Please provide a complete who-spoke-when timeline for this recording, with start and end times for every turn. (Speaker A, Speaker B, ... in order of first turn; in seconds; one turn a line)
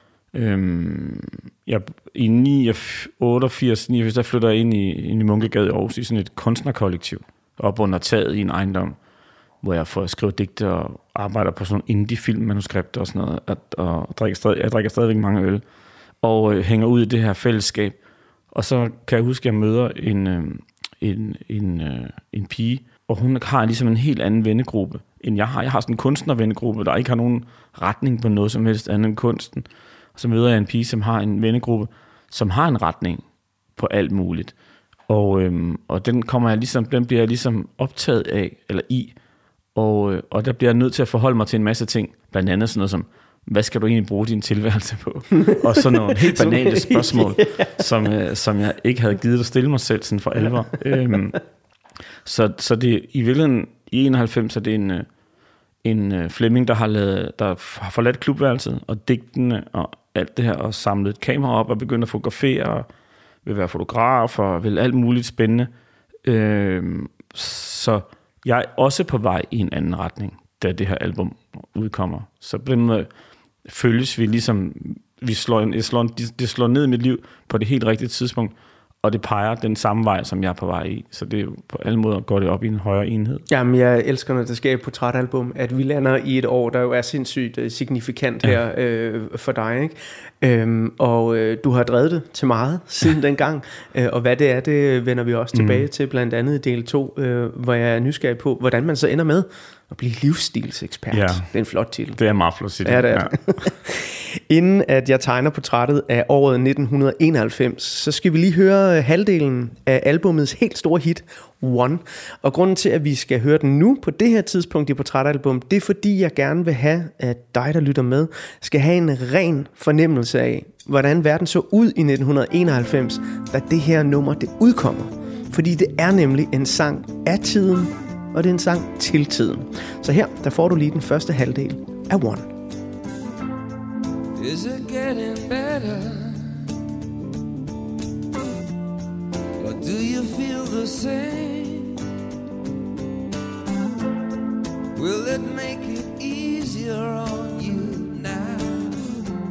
Speaker A: 0.3-9.0
Speaker A: 9.6-15.6
Speaker A: 16.2-18.0
Speaker A: 18.5-33.2
Speaker A: 33.8-34.5
Speaker A: 35.1-39.1
Speaker A: 39.8-51.4
Speaker B: 46.1-47.8
Speaker A: 52.2-55.1
Speaker A: 55.8-62.9
Speaker A: 63.4-65.7
Speaker A: 66.2-73.1
Speaker A: 73.7-83.4
Speaker B: 83.5-102.2
Speaker A: 95.5-95.9
Speaker A: 101.1-101.5
Speaker A: 102.2-103.4
Speaker B: 102.8-132.5
Speaker C: 134.4-136.7
Speaker C: 139.6-142.0
Speaker C: 144.9-149.2